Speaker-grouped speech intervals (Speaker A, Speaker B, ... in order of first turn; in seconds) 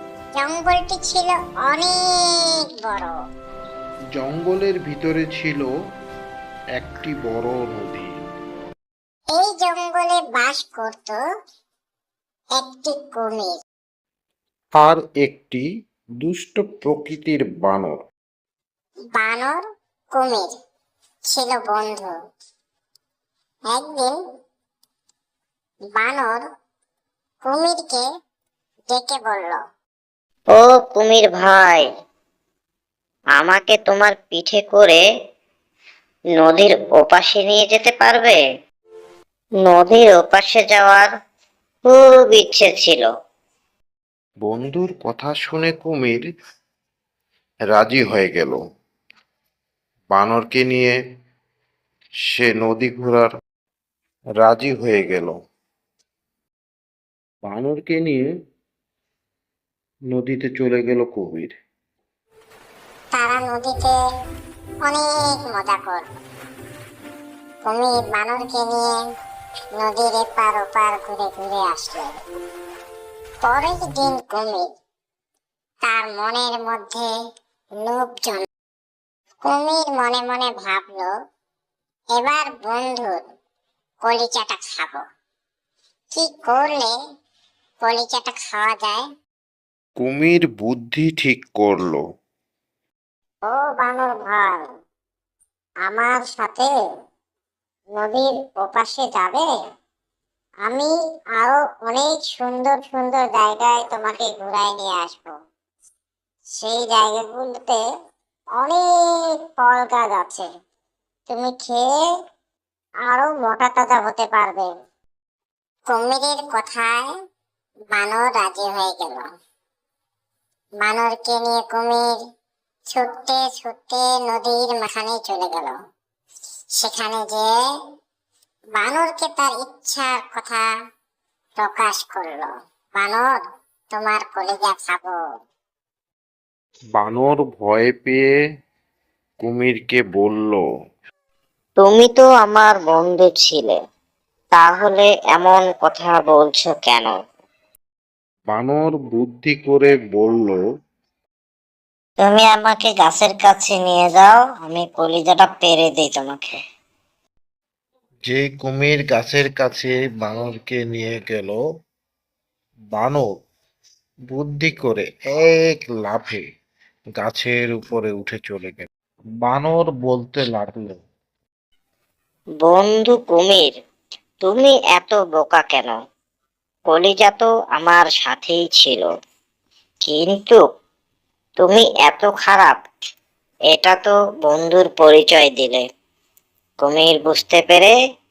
Speaker A: 0.4-3.1, 9.3-11.2, 12.5-13.6, 19.1-19.6, 20.1-20.5, 21.3-22.1, 23.7-24.2, 25.9-26.4, 27.4-28.0, 28.9-29.6, 63.1-64.0, 64.8-66.0, 67.6-69.0, 69.8-72.1, 73.4-74.7, 75.8-77.1, 77.8-78.5, 79.4-81.1, 82.1-83.2, 84.0-85.0, 86.1-86.9, 87.8-89.0, 93.4-94.7, 95.8-96.7, 97.9-99.5, 100.6-105.3, 106.5-107.8, 108.5-110.5, 111.3-111.9, 113.0-114.7, 115.9-117.1, 117.9-119.3, 120.8-122.1, 122.9-125.8, 126.8-127.6, 128.7-130.7, 131.6-133.4, 133.9-135.2
Speaker B: 4.2-5.7, 6.8-8.1, 14.8-15.6, 16.2-18.0, 44.4-46.2, 47.7-48.6, 50.1-51.0, 52.3-53.3, 54.4-55.3, 57.4-58.2, 60.1-61.5, 90.0-92.0, 136.9-138.2, 139.4-140.6, 148.5-150.6, 158.2-161.6, 162.9-163.3, 164.3-166.4, 167.2-168.9, 169.4-171.0
Speaker C: 30.5-31.9, 33.4-35.0, 36.4-38.4, 39.6-41.1, 41.9-43.1, 141.8-143.8, 144.6-147.1, 152.2-156.5, 172.6-173.7, 174.4-175.9, 176.9-179.1, 180.1-180.6, 181.6-182.8, 183.7-185.8, 186.8-187.9